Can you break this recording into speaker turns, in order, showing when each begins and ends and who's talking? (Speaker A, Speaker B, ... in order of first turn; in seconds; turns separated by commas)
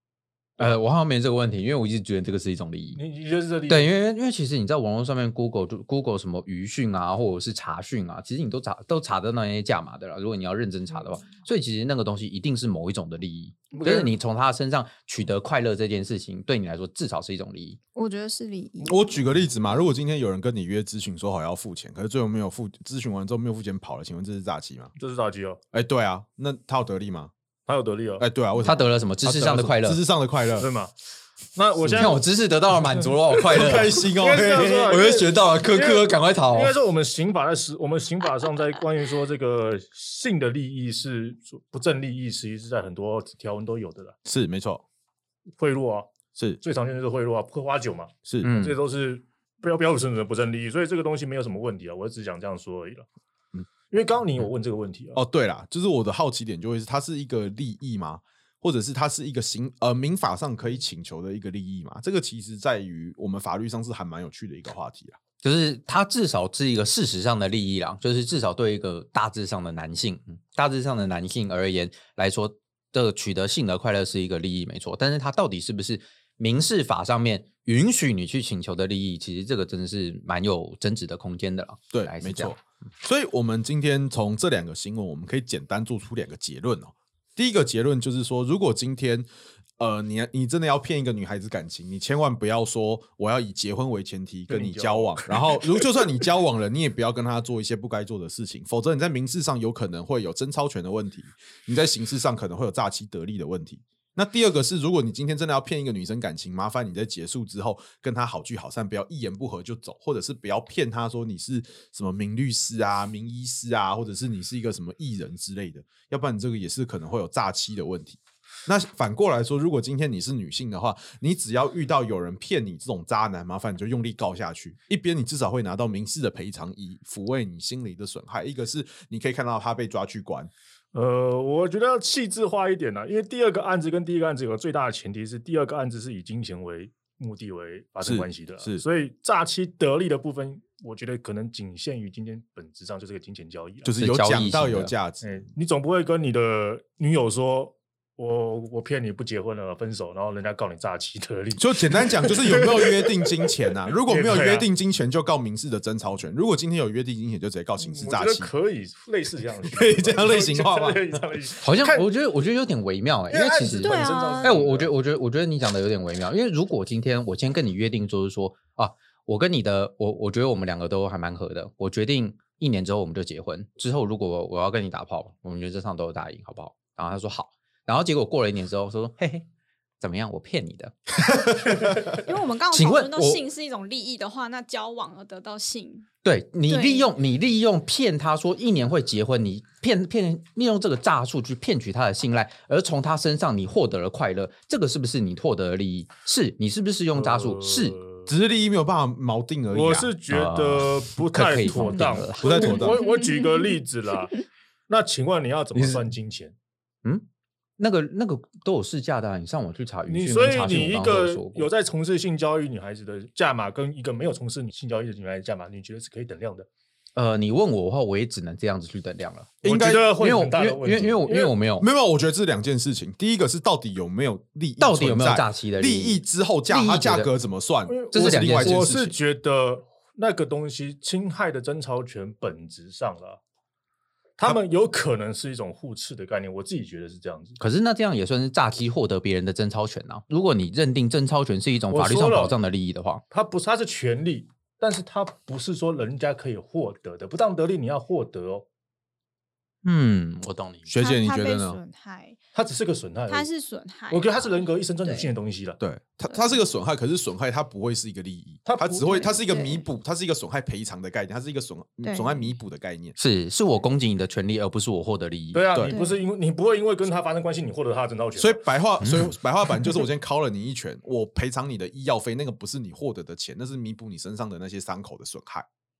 Speaker A: 0.6-3.0, Speaker B: 2.9-3.9, Speaker A: 3.7-17.8, Speaker B: 13.7-14.1, Speaker C: 17.9-19.1, Speaker D: 18.8-24.9, Speaker B: 25.0-25.6, Speaker D: 25.7-27.3, Speaker B: 27.7-28.2, Speaker D: 28.2-30.7, Speaker A: 28.6-30.0, Speaker B: 30.6-30.9, Speaker B: 31.5-32.2, Speaker A: 31.9-34.1, Speaker D: 33.5-35.0, Speaker B: 33.5-44.1, Speaker A: 34.7-36.7, Speaker D: 44.2-44.8, Speaker B: 45.6-46.1, Speaker B: 46.6-53.0, Speaker A: 48.4-48.8, Speaker B: 53.9-55.2, Speaker D: 55.1-65.2, Speaker A: 65.4-82.5, Speaker D: 81.9-89.3, Speaker D: 89.8-130.5, Speaker B: 94.5-96.0, Speaker B: 130.9-143.9, Speaker D: 138.0-138.8, Speaker D: 143.8-145.4, Speaker A: 144.0-144.9, Speaker B: 145.2-154.7, Speaker D: 151.6-158.5, Speaker B: 157.8-162.1, Speaker D: 159.7-161.2, Speaker A: 161.6-179.4, Speaker B: 163.3-164.9, Speaker C: 163.8-164.6, Speaker A: 180.0-181.9, Speaker C: 182.0-186.1, Speaker A: 182.7-183.4, Speaker A: 186.2-198.0, Speaker C: 186.7-187.1, Speaker B: 197.1-198.3, Speaker D: 198.3-200.1, Speaker B: 199.7-206.5, Speaker A: 200.3-202.9, Speaker D: 202.4-203.0, Speaker C: 202.5-203.7, Speaker A: 205.7-206.0, Speaker A: 207.8-211.7, Speaker B: 210.1-216.7, Speaker A: 217.2-221.8, Speaker B: 219.6-221.5, Speaker D: 219.6-220.2, Speaker D: 221.8-229.1, Speaker A: 224.8-227.3, Speaker B: 227.9-233.4, Speaker A: 228.1-228.9, Speaker B: 234.4-237.6, Speaker A: 237.6-243.2, Speaker B: 241.9-242.5, Speaker B: 243.3-248.6, Speaker A: 249.8-250.9, Speaker D: 250.9-251.8, Speaker C: 251.0-252.4, Speaker B: 252.5-253.5, Speaker C: 253.3-255.3, Speaker B: 254.1-255.8, Speaker D: 255.8-263.1, Speaker B: 258.6-259.3, Speaker C: 259.1-259.8, Speaker C: 262.0-262.5, Speaker A: 263.2-265.7, Speaker B: 265.5-268.6, Speaker C: 265.9-266.2, Speaker D: 268.4-275.6, Speaker A: 269.0-269.3